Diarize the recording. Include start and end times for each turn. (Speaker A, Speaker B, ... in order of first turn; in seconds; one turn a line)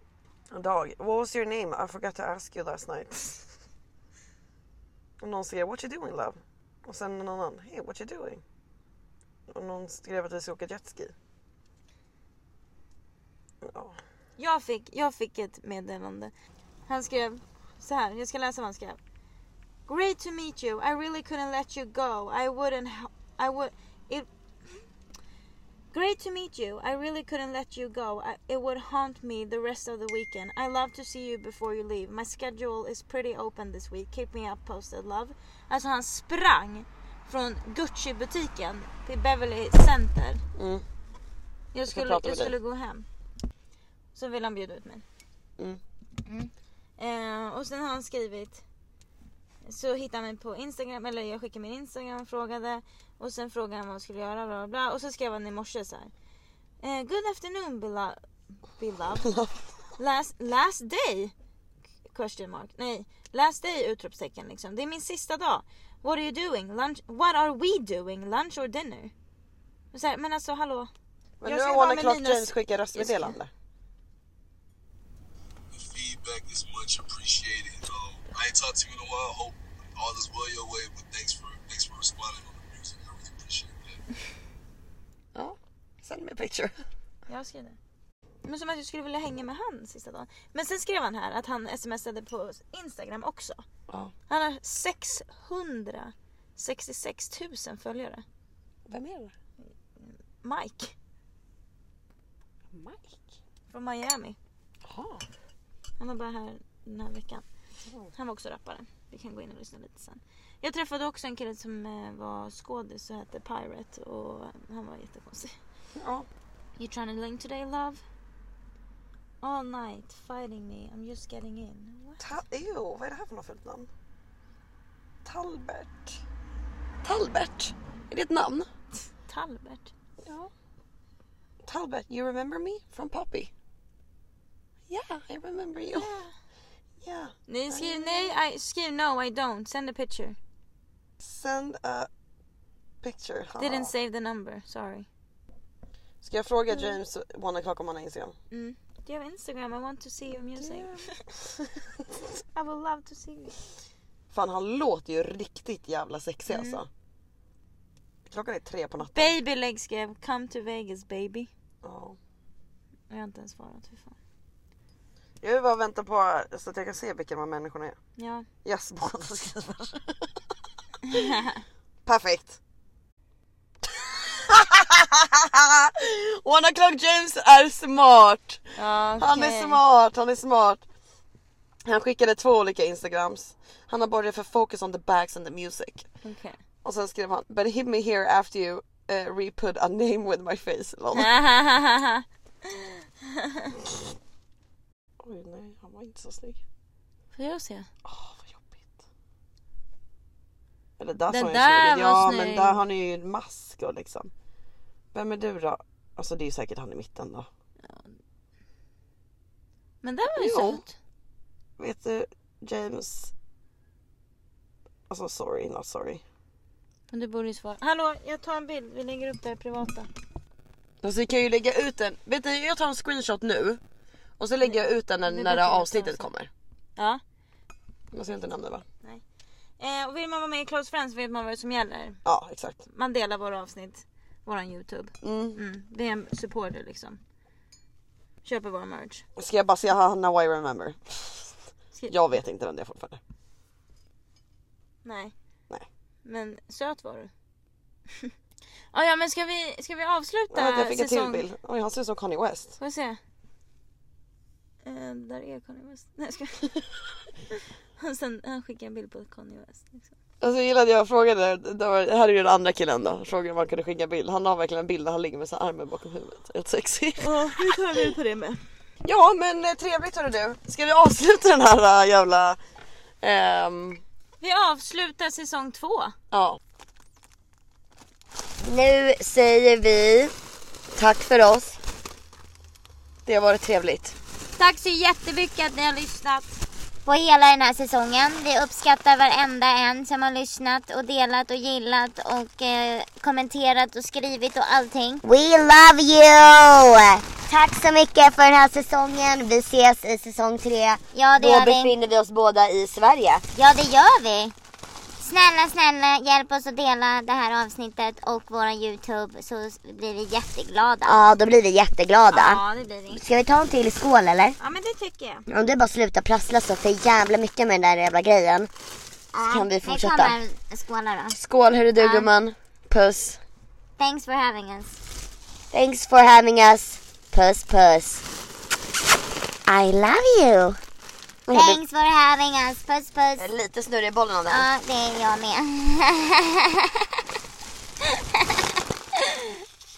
Speaker A: 0.5-3.5
Speaker A: 5.2-8.4
Speaker A: 9.5-11.1
Speaker A: 13.6-14.0
Speaker B: 14.4-16.3
Speaker B: 16.9-19.0
Speaker B: 19.9-24.3
Speaker B: 25.9-40.4
Speaker A: 40.6-40.8
Speaker B: 41.7-43.1
Speaker A: 41.9-42.5
Speaker B: 44.1-45.0
Speaker B: 46.2-48.6
Speaker B: 49.6-56.1
Speaker B: 56.8-58.2
Speaker B: 58.8-59.3
Speaker A: 59.2-59.6
Speaker B: 60.0-61.3
Speaker B: 62.1-69.1
Speaker B: 69.9-70.9
Speaker A: 71.4-73.5
Speaker B: 71.4-73.3
Speaker C: 75.7-84.0
Speaker A: 85.3-86.8
Speaker B: 87.3-87.8
Speaker B: 88.4-93.6
Speaker A: 93.9-94.1
Speaker B: 94.3-98.2
Speaker A: 98.9-99.3
Speaker B: 100.0-100.9
Speaker A: 102.7-103.3
Speaker B: 103.7-104.4
Speaker A: 104.8-105.3
Speaker B: 106.0-107.5
Speaker A: 107.9-108.1
Speaker B: 108.1-115.5
Speaker A: 116.0-116.3
Speaker B: 116.8-118.0
Speaker B: 119.4-122.2
Speaker A: 122.2-123.9
Speaker A: 125.2-126.2
Speaker A: 127.0-128.7
Speaker B: 129.2-129.9
Speaker A: 130.2-130.5
Speaker A: 131.6-133.5
Speaker A: 134.9-136.1
Speaker B: 135.9-136.3
Speaker A: 137.0-138.4
Speaker B: 137.5-140.4
Speaker A: 141.2-142.1
Speaker A: 143.0-143.9
Speaker B: 143.6-145.1
Speaker A: 146.2-148.3
Speaker B: 146.7-147.0
Speaker B: 148.5-151.0
Speaker A: 150.5-151.7
Speaker B: 152.5-153.6
Speaker A: 154.3-156.9
Speaker B: 156.5-156.8
Speaker A: 158.3-159.4
Speaker B: 159.0-161.5
Speaker A: 161.8-162.2
Speaker B: 163.1-164.2
Speaker A: 165.4-168.0
Speaker B: 168.2-168.5
Speaker A: 168.6-170.3
Speaker B: 171.1-171.6
Speaker A: 172.1-172.6
Speaker A: 173.9-178.6
Speaker B: 178.8-179.8
Speaker A: 179.2-180.8
Speaker A: 181.8-186.1
Speaker B: 186.2-186.6
Speaker A: 186.8-191.3
Speaker B: 191.2-193.8
Speaker A: 195.2-196.6
Speaker B: 197.3-197.9
Speaker A: 198.0-198.9
Speaker A: 201.0-204.3
Speaker B: 201.3-202.8
Speaker A: 205.1-207.5
Speaker B: 207.8-208.1
Speaker B: 210.0-210.9
Speaker A: 210.4-210.8
Speaker A: 211.8-213.3
Speaker A: 215.1-216.2
Speaker B: 217.1-220.1
Speaker A: 221.0-223.8
Speaker A: 224.4-226.5
Speaker B: 224.6-226.3
Speaker A: 228.1-228.8
Speaker B: 229.8-232.2
Speaker A: 232.2-232.8
Speaker B: 232.9-237.2
Speaker A: 235.2-235.6
Speaker B: 238.4-239.2
Speaker A: 239.4-241.6
Speaker A: 242.1-243.2
Speaker B: 245.0-245.3
Speaker B: 246.2-247.3
Speaker B: 248.9-251.4
Speaker A: 250.5-252.8
Speaker B: 252.8-253.2
Speaker B: 254.8-256.7
Speaker B: 258.0-260.1
Speaker A: 260.4-267.7
Speaker B: 267.2-268.6
Speaker A: 269.0-272.6
Speaker A: 273.2-274.0
Speaker B: 274.4-276.2
Speaker A: 276.3-276.6
Speaker D: 278.6-280.3
Speaker D: 281.0-281.8
Speaker A: 283.3-284.2
Speaker B: 284.6-286.6
Speaker E: 287.1-295.2
Speaker D: 295.2-303.4
Speaker E: 301.1-301.9
Speaker E: 303.6-304.5
Speaker E: 305.2-311.2
Speaker D: 311.1-314.6
Speaker B: 312.3-313.2
Speaker B: 314.6-315.4
Speaker D: 315.5-318.7
Speaker D: 319.4-320.4
Speaker A: 319.5-320.2
Speaker E: 319.5-321.4
Speaker A: 321.3-323.4
Speaker E: 322.0-322.3
Speaker E: 324.0-325.0
Speaker D: 325.7-328.2
Speaker D: 329.7-330.8
Speaker D: 331.5-331.8
Speaker E: 331.5-333.5
Speaker A: 333.4-334.7
Speaker E: 334.5-336.9